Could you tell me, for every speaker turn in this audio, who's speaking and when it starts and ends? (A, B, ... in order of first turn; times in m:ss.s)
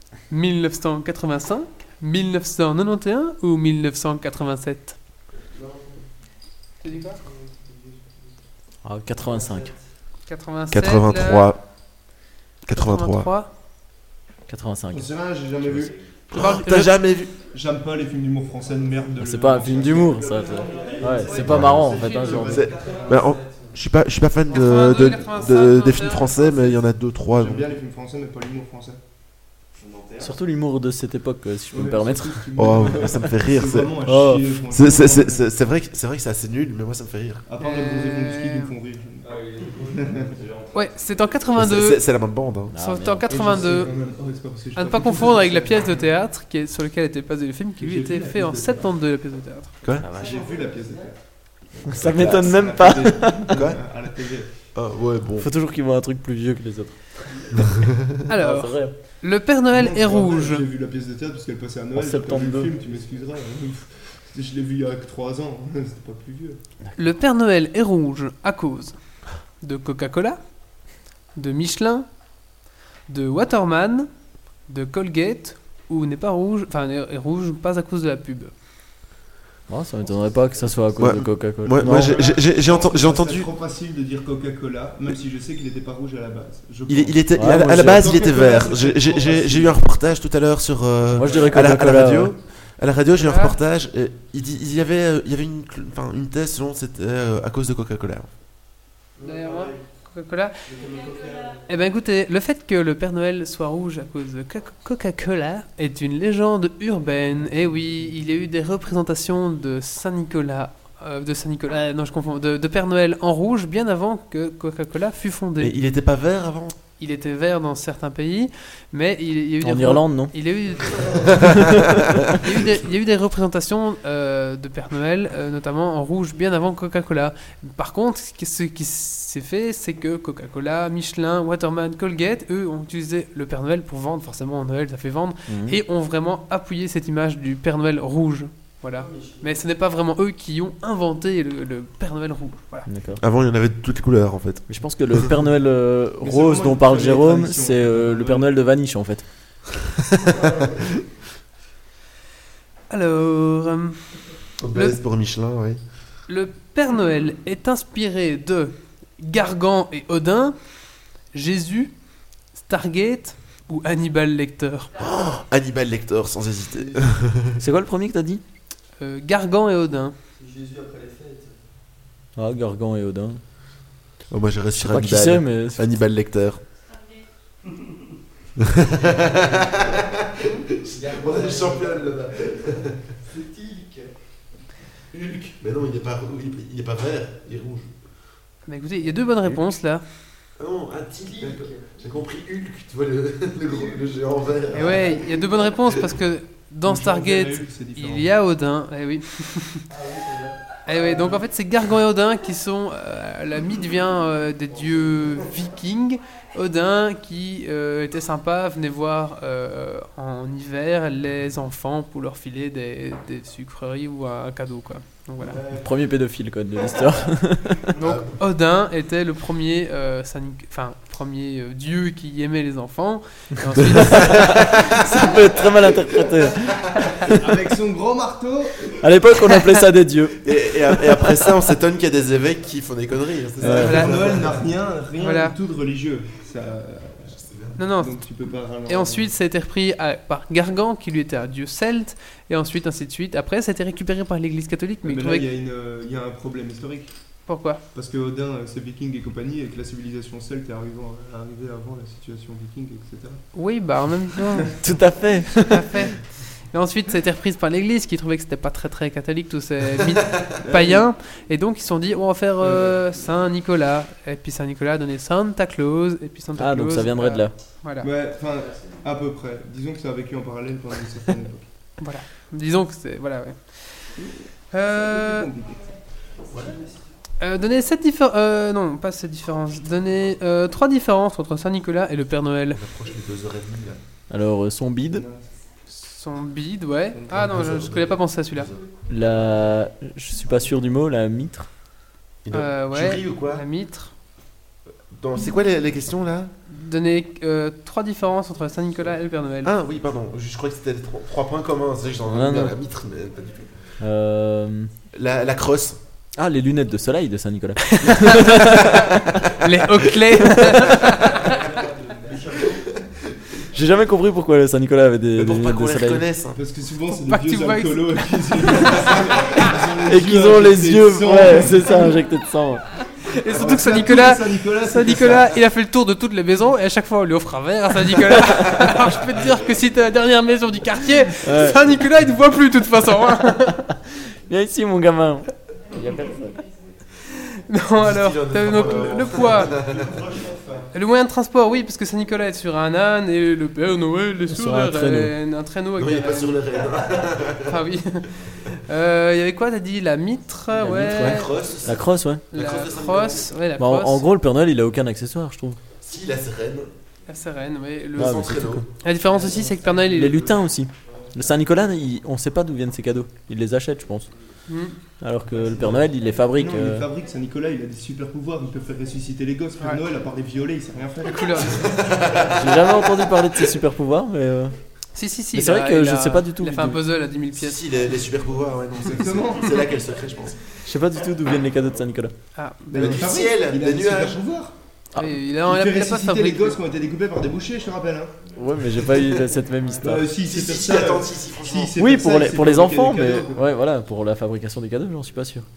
0:00.3-0:05.0 A
0:06.8-0:07.2 A
0:08.8-0:09.7 B
0:09.4-0:09.7 C
0:10.3-0:11.5 A
0:10.7-0:11.6 D
0:12.6-0:13.3 D
0:12.7-0:13.5 A
0:14.5-0:15.1 B
0:14.9-0:15.9 E
0:16.3-0:17.3 D
0:16.4-0:16.9 A
0:17.4-0:22.9 E
0:19.2-0:22.7 B
0:19.7-0:23.8 C
0:21.4-0:27.7 D
0:24.5-0:26.8 A
0:27.3-0:29.0 E
0:29.8-0:30.3 C
0:30.2-0:33.2 B
0:31.7-0:35.4 E
0:32.6-0:34.0 D
0:34.0-0:34.5 B
0:34.7-0:37.4 D
0:37.5-0:40.3 E
0:37.6-0:38.7 A
0:39.2-0:41.0 C
0:40.7-0:42.0 A
0:41.6-0:42.7 D
0:42.7-0:43.3 B
0:42.8-0:43.9 A
0:43.3-0:46.1 E
0:44.8-0:49.7 A
0:47.8-0:48.9 E
0:50.0-0:50.4 B
0:50.1-0:54.5 E
0:50.2-0:51.0 C
0:51.9-0:53.6 B
0:52.1-0:52.5 D
0:53.5-0:53.8 D
0:54.7-0:55.5 D
0:55.4-0:57.6 B
0:57.7-0:58.0 D
0:58.3-1:00.6 A
0:58.4-0:58.9 B
0:59.7-1:06.6 E
1:02.0-1:02.7 B
1:02.8-1:03.1 C
1:07.0-1:09.0 A
1:09.6-1:10.4 A
1:11.4-1:12.1 A
1:13.1-1:14.1 A
1:14.7-1:18.5 A
1:19.7-1:22.2 B
1:20.6-1:20.9 C
1:21.0-1:23.5 D
1:21.8-1:29.8 E
1:26.9-1:38.3 D
1:27.4-1:28.1 B
1:31.1-1:32.3 B
1:33.2-1:33.6 A
1:39.2-1:39.7 C
1:39.2-1:40.5 A
1:40.7-1:41.6 C
1:41.7-1:55.8 A
1:55.6-1:56.8 D
1:57.0-2:01.7 A
1:59.6-2:00.3 B
2:01.1-2:01.6 D
2:01.4-2:02.2 B
2:02.3-2:22.9 A
2:15.5-2:15.8 B
2:19.0-2:19.5 C
2:22.9-2:23.2 B
2:23.2-2:25.3 D
2:24.7-2:29.2 B
2:26.2-2:28.5 E
2:30.1-2:30.8 D
2:32.9-2:34.1 A
2:34.6-2:35.8 D
2:34.7-2:35.0 A
2:36.3-2:40.6 A
2:41.3-2:41.9 A
2:42.6-2:44.9 A
2:45.0-2:47.6 D
2:47.6-2:48.4 B
2:49.0-2:50.1 A
2:50.4-2:51.6 C
2:52.4-2:53.4 B
2:54.3-2:56.6 D
2:54.8-2:55.9 B
2:58.6-3:03.0 D
3:00.5-3:02.6 C
3:03.3-3:04.1 C
3:05.1-3:05.5 C
3:05.5-3:07.9 D
3:08.7-3:10.0 A
3:10.6-3:15.3 D
3:11.4-3:12.0 C
3:13.7-3:14.0 C
3:14.7-3:19.8 A
3:16.9-3:18.3 E
3:19.9-3:21.3 C
3:20.8-3:35.6 A
3:35.8-3:37.9 B
3:38.0-3:38.4 D
3:38.0-3:44.8 A
3:44.0-3:47.4 B
3:44.7-3:45.0 D
3:47.2-3:49.1 E
3:49.0-3:51.4 B
3:50.4-3:54.7 D
3:53.6-3:54.1 B
3:53.6-3:57.4 E
3:53.8-3:54.1 A
3:55.2-3:55.6 A
3:57.3-3:57.8 D
3:57.8-3:58.2 A
3:57.9-3:59.3 E
3:58.9-4:05.5 A
4:05.0-4:07.1 E
4:07.5-4:07.8 A
4:07.9-4:13.5 E
4:13.5-4:14.7 A
4:14.8-4:16.0 B
4:15.6-4:28.1 A
4:20.6-4:21.1 E
4:22.6-4:23.0 E
4:26.6-4:27.5 B
4:28.0-4:31.7 E
4:32.0-4:34.2 A
4:34.2-4:35.9 E
4:34.7-4:35.5 A
4:36.5-4:36.8 D
4:37.4-4:42.8 A
4:42.8-4:44.0 D
4:44.3-4:45.2 B
4:45.1-4:45.5 E
4:45.9-4:48.7 A
4:47.3-4:48.9 D
4:49.1-4:51.7 B
4:52.4-4:53.6 D
4:52.5-4:54.1 A
4:55.1-4:56.5 D
4:56.7-4:59.7 A
4:59.6-5:03.7 D
5:02.3-5:02.7 B
5:04.0-5:04.9 B
5:05.1-5:06.0 D
5:06.4-5:09.5 B
5:07.9-5:11.5 A
5:10.4-5:11.2 B
5:11.1-5:13.0 C
5:13.7-5:16.3 B
5:15.4-5:16.6 D
5:16.5-5:22.2 E
5:17.1-5:19.7 A
5:20.0-5:22.8 B
5:23.1-5:33.9 A
5:23.5-5:25.5 E
5:31.4-5:31.9 B
5:34.5-5:36.6 B
5:37.4-5:39.8 A
5:38.0-5:40.1 D
5:38.7-5:40.9 E
5:40.9-5:46.6 A
5:44.5-5:45.3 B
5:46.0-5:47.9 D
5:47.6-5:51.5 A
5:50.8-5:52.4 B
5:50.9-5:53.6 D
5:52.5-5:54.2 A
5:53.8-5:55.8 B
5:56.0-5:56.9 D
5:57.3-6:00.5 A
5:58.2-5:58.9 D
5:58.2-5:58.9 B
6:00.1-6:04.3 B
6:04.7-6:05.0 A
6:05.2-6:07.1 B
6:06.6-6:12.0 E
6:11.3-6:12.0 A
6:11.7-6:12.8 D
6:12.5-6:14.8 B
6:15.2-6:17.8 A
6:15.5-6:17.0 B
6:17.6-6:20.6 D
6:19.0-6:20.0 E
6:20.8-6:22.3 B
6:22.6-6:23.4 A
6:22.9-6:24.7 E
6:22.9-6:24.4 D
6:25.2-6:26.8 A
6:25.6-6:28.4 E
6:28.5-6:28.8 C
6:28.6-6:30.3 B
6:29.1-6:29.4 E
6:30.0-6:33.6 E
6:30.4-6:32.0 D
6:32.0-6:35.7 B